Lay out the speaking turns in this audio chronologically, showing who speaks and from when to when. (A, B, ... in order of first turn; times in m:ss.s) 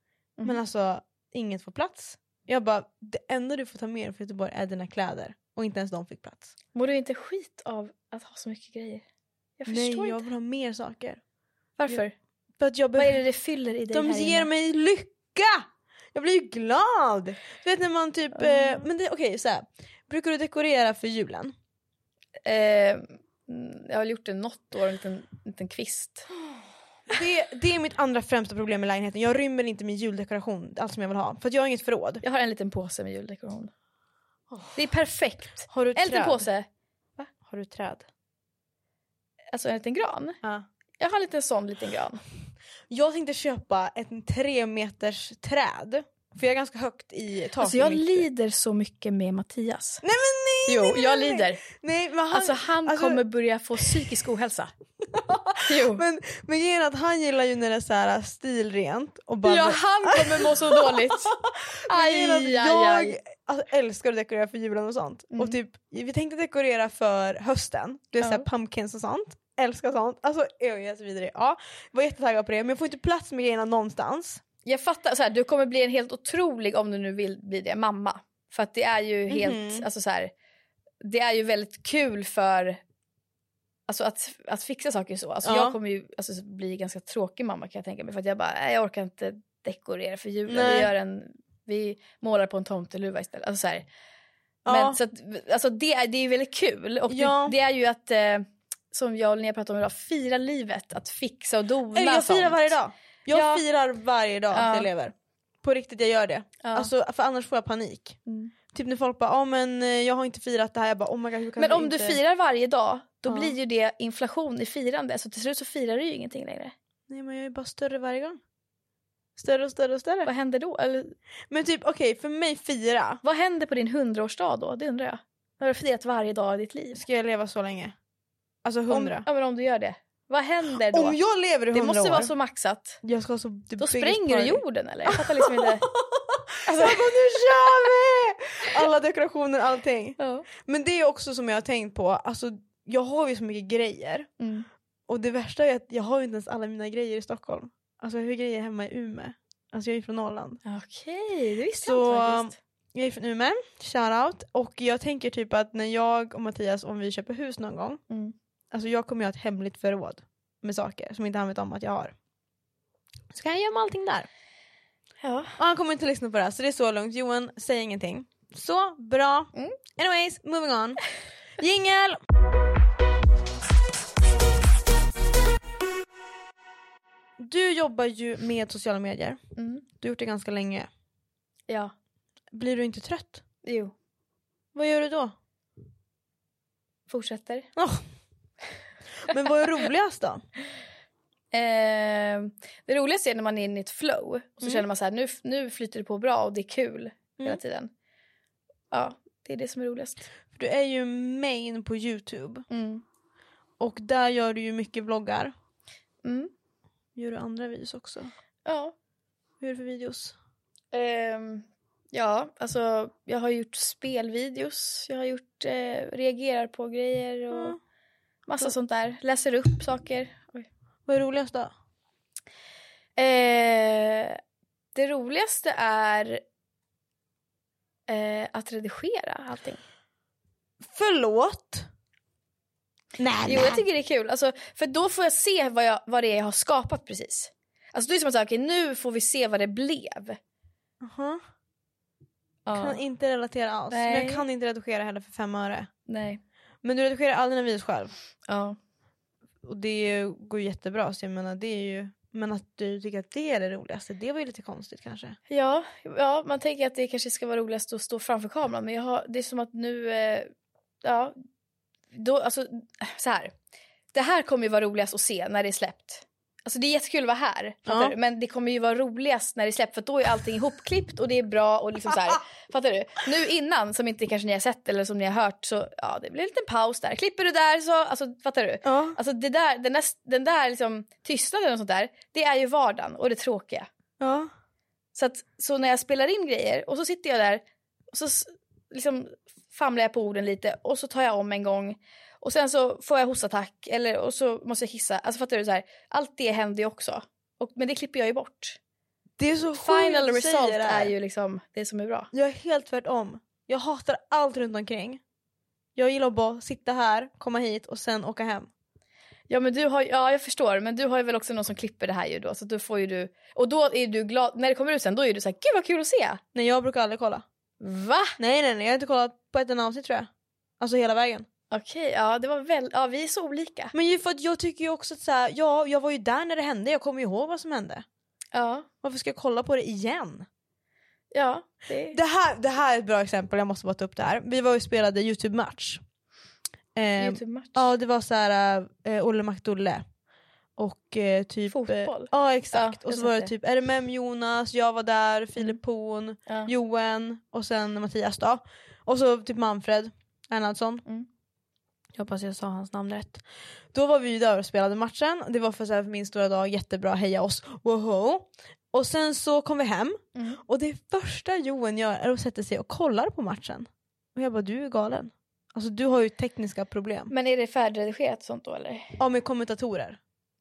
0:00.4-0:06.5 A
0:06.8-0:09.0 B
0:09.6-0:10.2 B
0:09.7-0:11.2 A
0:11.8-0:12.1 B
0:12.6-0:13.2 A
0:13.0-0:14.5 B
0:13.9-0:21.6 A
0:18.3-0:18.8 B
0:22.4-0:26.3 B
0:27.1-0:32.2 A
0:32.2-0:33.7 B
0:34.5-0:34.8 A
0:34.8-0:36.7 B
0:35.7-0:36.5 A
0:37.3-0:38.1 A
0:39.5-0:40.4 B
0:41.0-0:42.2 B
0:42.9-0:48.3 A
0:47.6-0:50.0 B
0:50.0-0:53.2 A
0:50.7-0:51.6 B
0:52.3-0:54.7 B
0:53.8-0:54.1 A
0:55.0-1:14.4 A
0:55.7-0:56.0 B
0:59.4-1:01.4 B
1:01.9-1:03.2 B
1:05.3-1:05.6 B
1:08.2-1:08.5 B
1:14.6-1:20.3 B
1:19.3-1:19.9 A
1:21.0-1:22.8 B
1:23.9-1:33.9 B
1:25.4-1:25.8 A
1:30.5-1:30.9 A
1:34.6-1:35.0 A
1:34.7-1:42.8 B
1:37.1-1:37.6 A
1:41.9-1:48.2 A
1:43.3-1:43.6 B
1:44.5-1:44.9 B
1:46.6-1:46.9 B
1:48.3-1:48.5 B
1:48.7-1:52.2 A
1:51.6-1:56.7 B
1:53.2-1:53.6 A
1:57.1-1:58.4 A
1:59.4-2:00.3 A
2:00.2-2:01.2 B
2:01.5-2:03.2 A
2:03.2-2:07.0 B
2:06.9-2:08.0 A
2:08.6-2:09.3 A
2:08.9-2:11.2 B
2:10.7-2:12.3 A
2:11.7-2:13.0 B
2:13.0-2:24.3 A
2:13.8-2:15.9 B
2:16.6-2:17.9 B
2:20.2-2:20.5 B
2:24.4-2:24.7 B
2:25.1-2:30.6 A
2:30.6-2:32.6 B
2:31.8-2:38.0 A
2:38.7-2:42.2 A
2:43.3-2:44.3 A
2:45.2-2:45.6 B
2:45.6-2:51.0 A
2:51.6-2:52.2 A
2:57.4-2:59.4 A
2:59.6-2:59.8 B
3:00.0-3:00.9 A
3:02.5-3:03.4 A
3:03.6-3:03.9 B
3:04.7-3:05.4 A
3:07.1-3:07.7 B
3:07.8-3:08.0 A
3:09.3-3:10.4 A
3:11.5-3:17.9 B
3:18.9-3:20.3 B
3:20.5-3:22.7 A
3:22.7-3:23.0 B
3:23.8-3:25.5 A
3:26.2-3:26.5 B
3:27.2-3:28.3 A
3:28.7-3:28.9 B
3:29.6-3:30.4 A
3:30.9-3:37.8 B
3:37.5-3:37.8 A
3:38.5-3:40.7 B
3:41.1-3:41.7 A
3:43.2-3:44.4 B
3:45.0-3:46.4 B
3:48.1-3:49.8 B
3:50.8-3:51.9 A
3:53.2-3:53.8 A
3:53.4-4:00.4 B
4:01.0-4:01.4 A
4:02.7-4:03.0 B
4:02.7-4:05.9 A
4:03.9-4:04.4 B
4:06.1-4:06.4 B
4:06.8-4:08.1 A
4:08.5-4:08.8 B
4:09.6-4:15.4 A
4:15.5-4:20.5 B
4:21.0-4:21.4 B
4:22.1-4:23.5 B
4:24.1-4:43.9 B
4:27.9-4:28.2 A
4:38.8-4:39.2 A
4:44.2-4:44.5 A
4:45.2-4:58.8 B
4:59.4-5:01.1 A
4:59.8-5:02.3 B
5:02.3-5:05.2 A
5:06.0-5:08.7 A
5:09.5-5:16.4 B
5:16.5-5:17.4 A
5:17.8-5:18.4 B
5:18.4-5:20.3 A
5:20.8-5:21.5 A
5:21.7-5:23.9 B
5:23.9-5:28.0 A
5:28.5-5:28.9 B
5:29.0-5:30.5 A
5:31.3-5:32.2 B
5:32.1-5:36.0 A
5:37.0-5:40.0 A
5:37.2-5:37.9 B
5:40.8-5:51.0 A
5:41.7-5:43.5 B
5:52.2-6:07.3 A
6:00.4-6:00.6 B
6:07.3-6:09.2 B
6:09.2-6:10.2 A